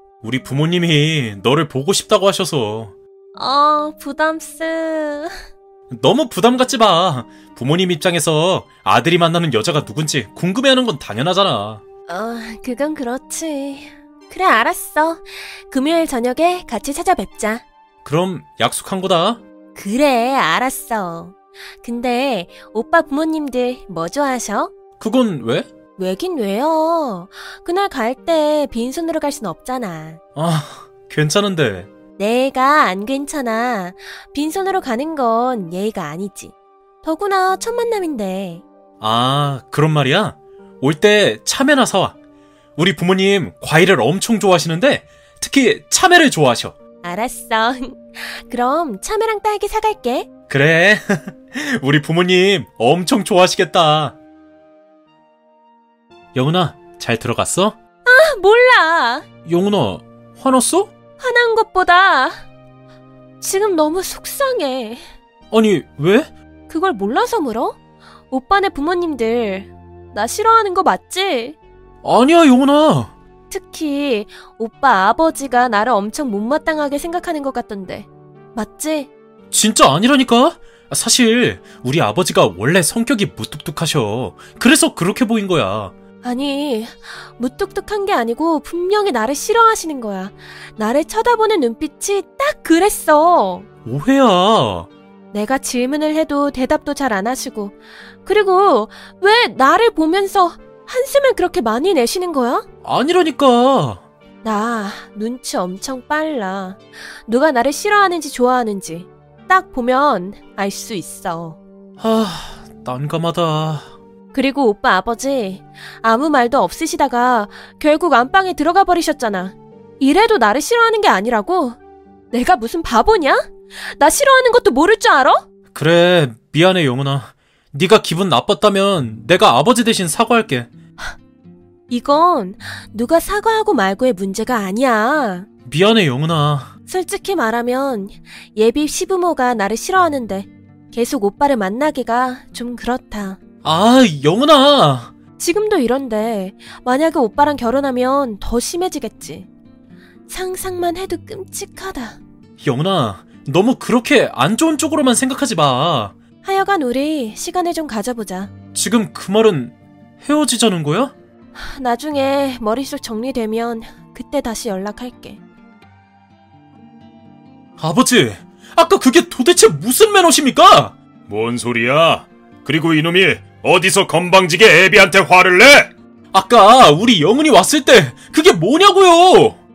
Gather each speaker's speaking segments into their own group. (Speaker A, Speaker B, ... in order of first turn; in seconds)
Speaker A: 0.2-2.9, 5.9-11.8, 18.0-19.4, 25.0-25.7, 30.4-31.9, 39.0-42.2, 42.8-46.7, 50.5-54.2, 56.3-57.7, 59.5-60.9, 65.5-66.3, 72.0-73.1, 79.5-85.9, 93.8-94.9, 102.8-104.0, 112.0-113.9, 125.7-130.7, 135.7-136.7, 143.6-145.1, 152.6-156.2, 158.7-161.1, 167.8-170.9, 176.3-179.6
Speaker B: 3.3-5.3, 12.1-17.6, 19.7-24.7, 26.0-30.2, 32.2-38.6, 47.0-50.3, 58.0-59.3, 61.2-62.4, 63.4-65.0, 66.7-67.8, 68.3-71.6, 73.5-79.1, 86.2-93.7, 95.3-102.7, 104.4-111.6, 114.3-121.8, 122.3-125.4, 131.9-135.5, 136.9-143.4, 145.4-149.5, 150.3-152.2, 156.4-158.5, 161.5-165.4
Speaker C: 171.3-175.9